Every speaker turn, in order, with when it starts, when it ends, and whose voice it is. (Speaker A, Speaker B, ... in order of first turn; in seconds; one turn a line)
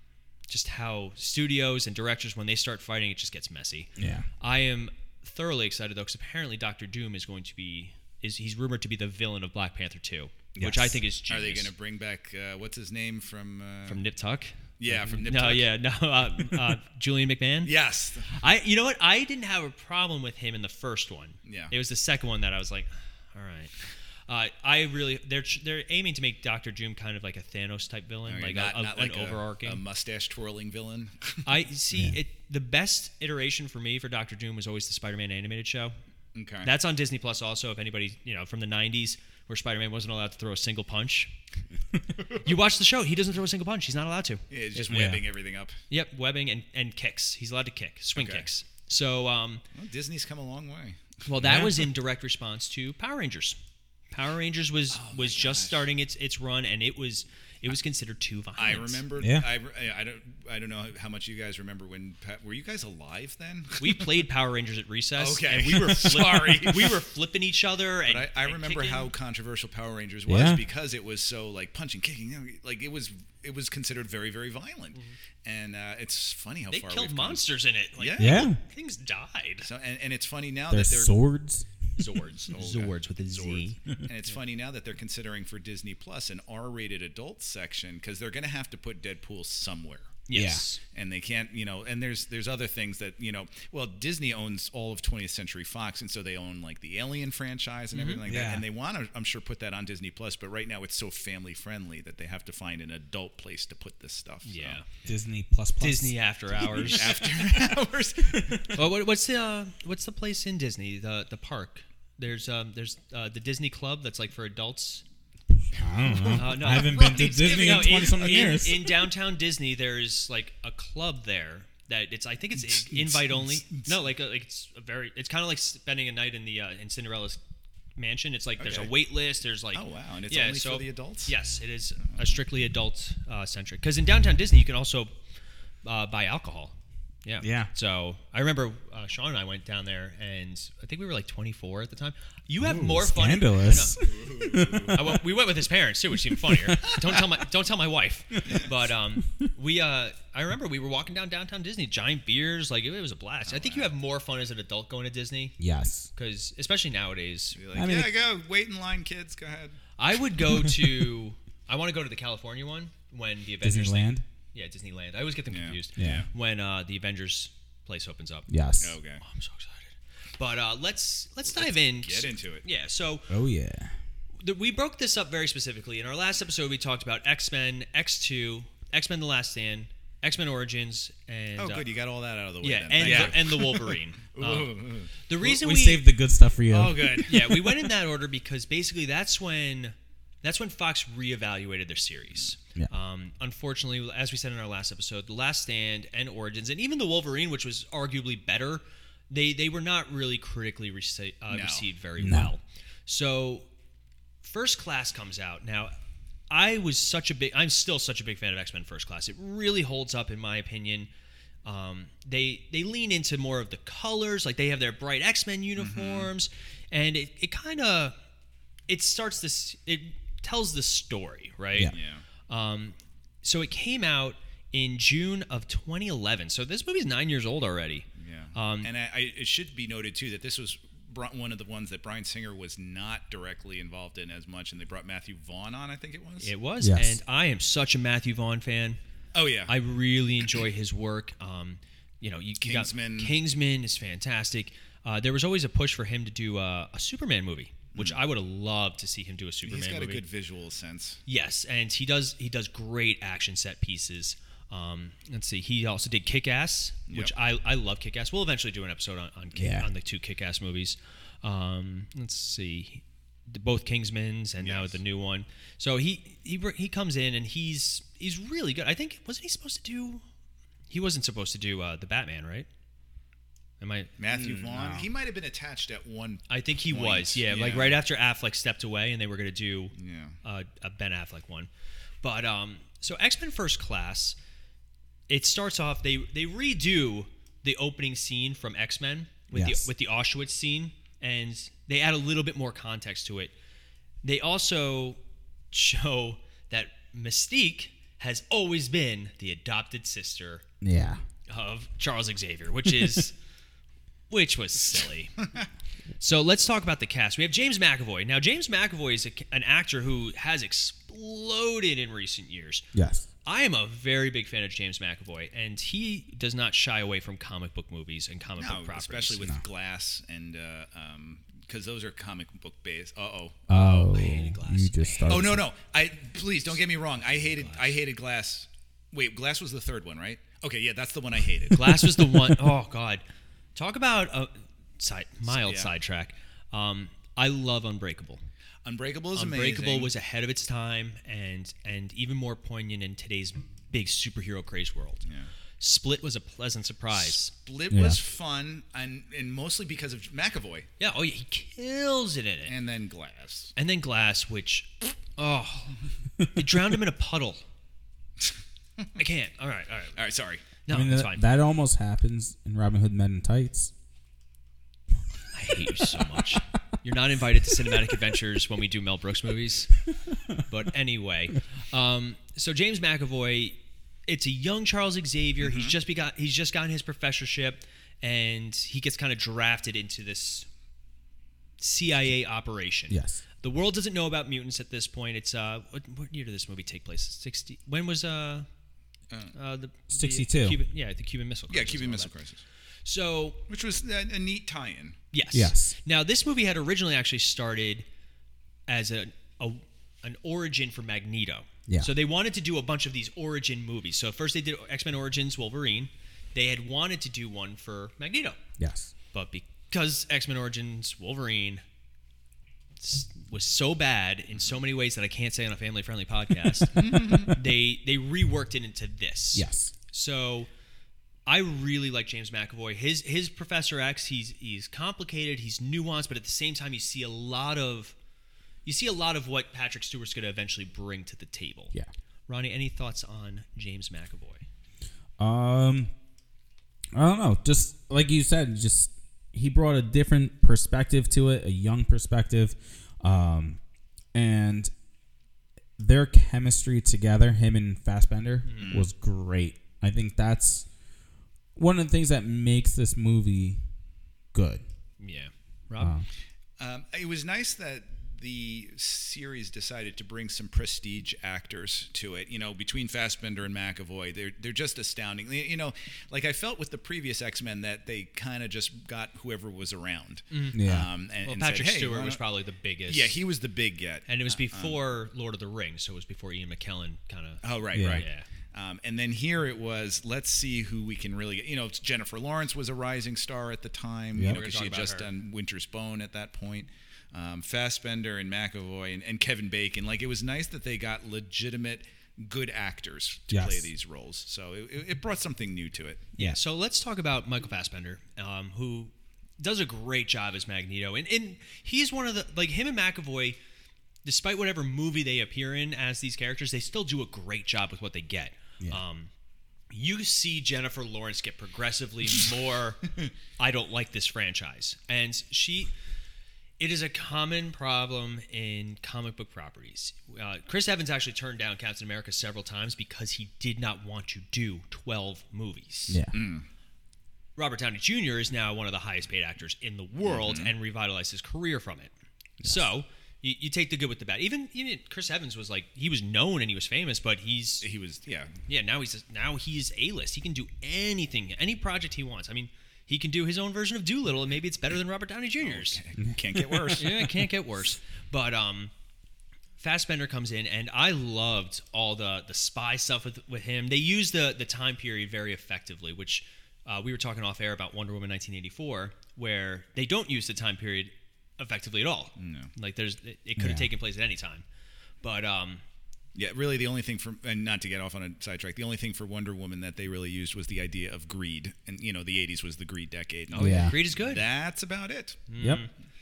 Speaker A: 0.5-11.7
Speaker B: 4.0-4.3
Speaker B: 10.5-11.0
Speaker C: 11.3-14.0
Speaker A: 13.9-17.7
Speaker C: 14.8-15.7
Speaker C: 17.6-18.4
Speaker A: 18.2-29.8
Speaker C: 21.4-21.7
Speaker C: 28.3-31.5
Speaker A: 31.4-36.0
Speaker C: 36.3-36.7
Speaker A: 36.6-41.4
Speaker A: 42.2-45.0
Speaker C: 44.5-45.8
Speaker B: 44.9-45.2
Speaker A: 45.9-49.6
Speaker C: 48.1-48.5
Speaker C: 49.7-51.2
Speaker A: 51.2-59.0
Speaker B: 51.4-51.7
Speaker C: 54.9-55.9
Speaker C: 58.6-64.2
Speaker B: 59.2-59.5
Speaker A: 63.8-69.1
Speaker C: 65.2-67.0
Speaker C: 68.1-78.5
Speaker B: 70.3-70.6
Speaker A: 76.7-79.7
Speaker B: 78.2-78.6
Speaker C: 79.7-81.2
Speaker B: 80.7-81.9
Speaker A: 81.9-83.9
Speaker C: 82.5-90.2
Speaker A: 90.3-90.8
Speaker B: 90.3-90.7
Speaker C: 90.8-105.0
Speaker A: 97.9-98.2
Speaker B: 98.3-98.6
Speaker A: 104.4-104.9
Speaker B: 105.0-106.2
Speaker A: 105.8-107.2
Speaker C: 106.6-108.7
Speaker B: 108.3-108.7
Speaker A: 108.7-115.0
Speaker B: 115.7-118.9
Speaker C: 116.0-118.7
Speaker A: 116.3-127.4
Speaker C: 122.5-123.9
Speaker A: 128.0-135.2
Speaker C: 128.6-128.9
Speaker C: 129.7-131.3
Speaker C: 132.0-132.3
Speaker A: 135.8-144.2
Speaker B: 137.4-137.7
Speaker B: 142.6-145.0
Speaker C: 144.0-145.0
Speaker A: 144.8-155.6
Speaker B: 146.5-146.8
Speaker C: 153.4-153.9
Speaker B: 155.6-156.1
Speaker A: 156.1-157.6
Speaker C: 157.5-159.9
Speaker B: 157.7-158.1
Speaker A: 160.0-168.5
Speaker B: 163.6-164.2
Speaker C: 165.5-166.3
Speaker B: 166.0-166.3
Speaker B: 168.5-169.0
Speaker C: 168.8-169.2
Speaker A: 169.2-173.4
Speaker C: 171.5-172.7
Speaker B: 173.3-174.0
Speaker A: 174.4-181.9
Speaker C: 181.6-185.2
Speaker A: 182.6-186.0
Speaker B: 185.4-187.7
Speaker C: 186.7-187.6
Speaker A: 187.2-203.7
Speaker C: 201.5-201.8
Speaker B: 202.2-202.5
Speaker A: 204.4-205.9
Speaker A: 206.5-211.1
Speaker A: 211.6-218.1
Speaker C: 215.8-216.3
Speaker A: 218.9-222.0
Speaker C: 221.9-222.2
Speaker A: 222.5-228.9
Speaker C: 228.2-236.5
Speaker A: 236.4-239.0
Speaker B: 236.8-237.2
Speaker C: 239.3-239.8
Speaker A: 239.7-250.2
Speaker C: 242.6-243.3
Speaker C: 249.7-251.2
Speaker A: 251.3-270.2
Speaker B: 259.6-259.9
Speaker C: 264.6-264.9
Speaker A: 270.9-272.7
Speaker A: 273.8-274.1
Speaker C: 274.2-278.0
Speaker B: 274.3-275.1
Speaker A: 276.5-281.7
Speaker C: 279.9-280.4
Speaker A: 282.2-284.4
Speaker A: 285.3-293.5
Speaker B: 289.5-289.9
Speaker A: 294.2-295.2
Speaker A: 295.7-300.6
Speaker B: 300.8-301.2
Speaker A: 301.5-303.4
Speaker A: 304.3-305.4
Speaker C: 305.4-305.7
Speaker A: 306.2-312.8
Speaker B: 312.9-313.2
Speaker A: 313.4-319.5
Speaker C: 318.6-324.2
Speaker B: 323.7-325.6
Speaker A: 324.1-325.5
Speaker C: 325.3-332.2
Speaker A: 327.6-327.9
Speaker A: 331.7-333.2
Speaker A: 333.7-338.4
Speaker C: 335.5-335.9
Speaker C: 338.8-340.1
Speaker A: 339.3-345.2
Speaker C: 345.2-345.5
Speaker A: 345.8-347.5
Speaker C: 347.1-350.9
Speaker B: 347.9-348.2
Speaker A: 351.0-352.7
Speaker C: 352.6-353.7
Speaker A: 353.8-357.6
Speaker A: 359.2-360.2
Speaker C: 360.1-360.6
Speaker A: 360.8-361.4
Speaker B: 360.9-363.9
Speaker A: 365.5-380.7
Speaker C: 375.6-375.9
Speaker A: 381.8-388.7
Speaker B: 383.1-383.4
Speaker A: 389.5-392.4
Speaker B: 390.1-390.8
Speaker C: 391.7-392.6
Speaker A: 393.0-393.6
Speaker C: 393.7-395.2
Speaker A: 395.3-398.1
Speaker B: 395.5-395.9
Speaker A: 398.9-408.6
Speaker B: 408.8-409.1
Speaker A: 409.2-411.8
Speaker A: 413.0-420.7
Speaker C: 417.0-417.5
Speaker B: 419.5-419.9
Speaker A: 421.5-428.1
Speaker A: 428.8-431.9
Speaker A: 432.5-434.6
Speaker B: 435.4-436.1
Speaker B: 437.1-443.8
Speaker B: 444.3-444.9
Speaker B: 446.0-450.9
Speaker A: 448.6-449.0
Speaker C: 448.8-449.1
Speaker B: 451.8-453.8
Speaker B: 454.5-454.8
Speaker A: 455.2-456.1
Speaker B: 456.0-456.3
Speaker C: 456.8-472.4
Speaker A: 470.5-470.8
Speaker B: 470.7-471.1
Speaker A: 471.4-473.4
Speaker C: 473.1-475.0
Speaker A: 474.2-478.5
Speaker C: 477.6-496.3
Speaker B: 477.9-478.2
Speaker B: 484.3-484.6
Speaker A: 484.4-485.3
Speaker B: 493.5-493.9
Speaker A: 496.3-503.6
Speaker A: 504.2-509.3
Speaker A: 509.9-515.9
Speaker A: 516.8-526.3
Speaker B: 526.1-526.3
Speaker C: 526.3-526.6
Speaker A: 527.5-537.9
Speaker C: 530.2-530.7
Speaker B: 532.6-532.9
Speaker C: 537.8-538.6
Speaker A: 538.7-546.0
Speaker C: 545.6-547.1
Speaker B: 546.2-546.9
Speaker A: 547.0-548.9
Speaker A: 549.8-564.6
Speaker C: 562.4-562.7
Speaker B: 563.6-563.9
Speaker A: 565.2-565.8
Speaker C: 566.3-575.4
Speaker A: 573.5-574.5
Speaker B: 573.6-574.0
Speaker A: 575.5-576.0
Speaker B: 575.6-575.8